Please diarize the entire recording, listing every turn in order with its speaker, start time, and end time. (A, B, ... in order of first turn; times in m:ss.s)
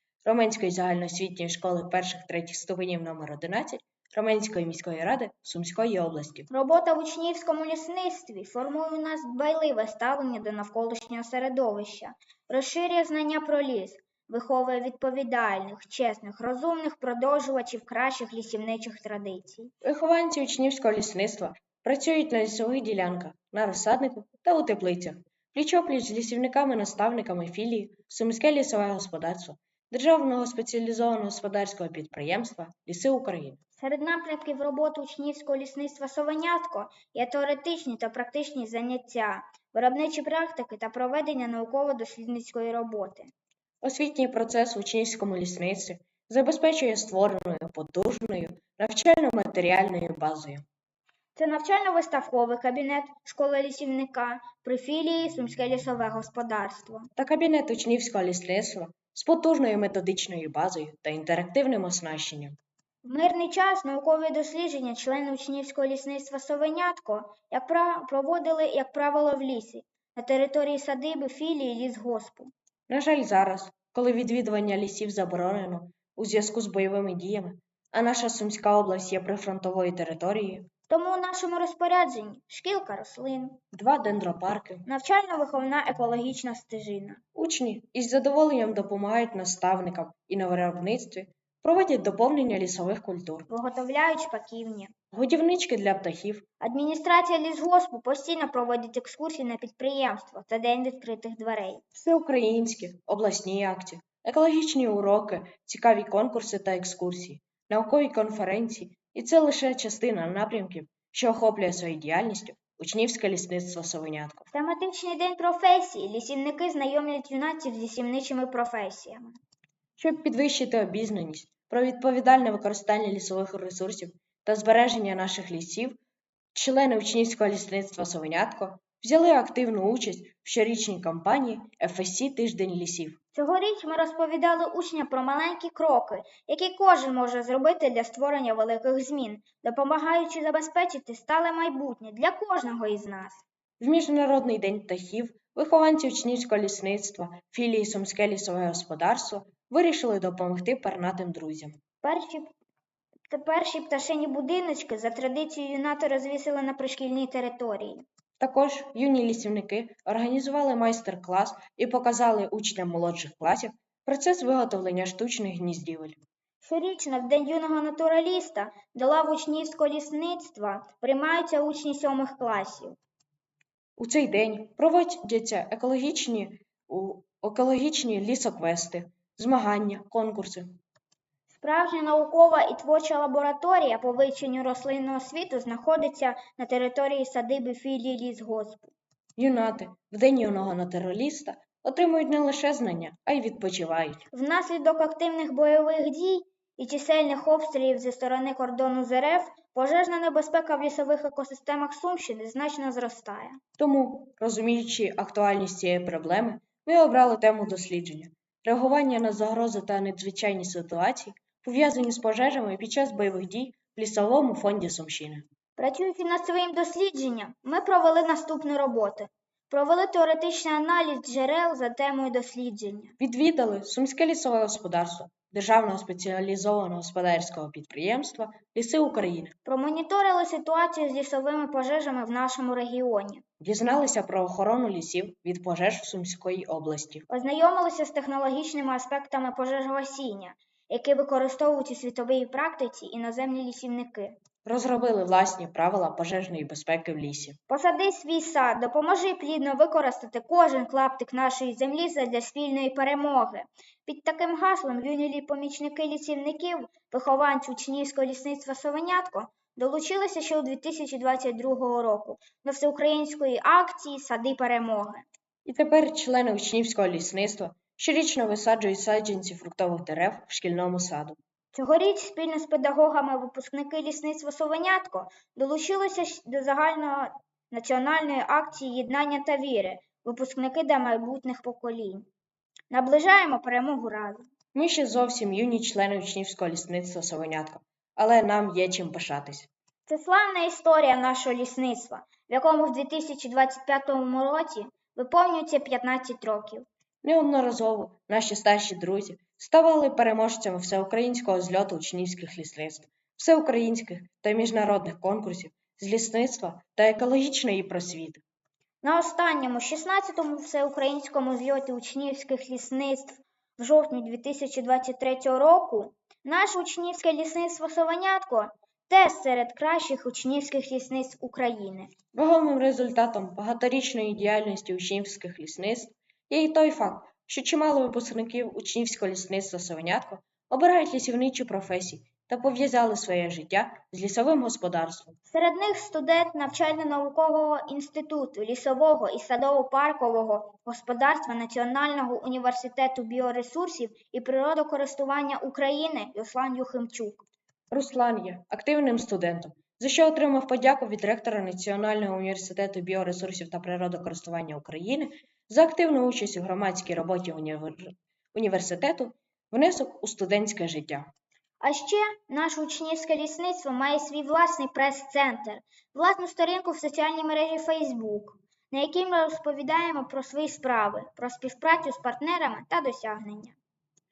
0:00.2-0:06.5 A
0:06.5-0:19.7 B
0:19.8-0:33.6 A
0:33.8-0:43.3 B
0:43.8-0:50.6 A
0:51.4-0:57.1 B
0:57.2-1:02.6 A
1:03.0-1:12.5 B
1:12.9-1:20.7 A
1:20.9-1:23.6 B
1:23.7-1:24.8 A
1:24.9-1:27.2 B
1:27.3-1:33.5 A
1:33.5-1:34.9 B
1:35.1-1:36.4 A
1:36.6-1:41.8 B
1:41.9-1:54.5 A
1:54.5-1:59.4 B
2:00.0-2:06.0 A
2:06.5-2:13.2 A
2:13.3-2:23.4 B
2:23.8-2:31.8 A
2:32.0-2:32.5 B
2:33.3-2:38.0 B
2:38.4-2:46.2 A
2:46.6-2:53.0 B
2:54.0-3:00.8 A
3:01.5-3:08.9 B
3:09.4-3:14.2 A
3:14.3-3:23.6 B
3:23.8-3:35.4 A
3:35.8-3:43.2 B
3:43.2-3:49.6 A
3:49.6-3:53.4 B
3:53.6-3:57.2 A
3:57.3-4:04.4 B
4:04.6-4:07.6 A
4:07.7-4:25.2 B
4:25.6-4:31.4 A
4:31.7-4:42.3 B
4:42.9-4:44.5 B
4:44.7-4:49.7 A
4:50.1-4:56.9 B
4:57.2-5:08.4 A
5:09.0-5:22.1 B
5:22.3-5:35.4 A
5:35.5-5:47.4 B
5:47.9-6:01.3 A
6:01.8-6:13.8 B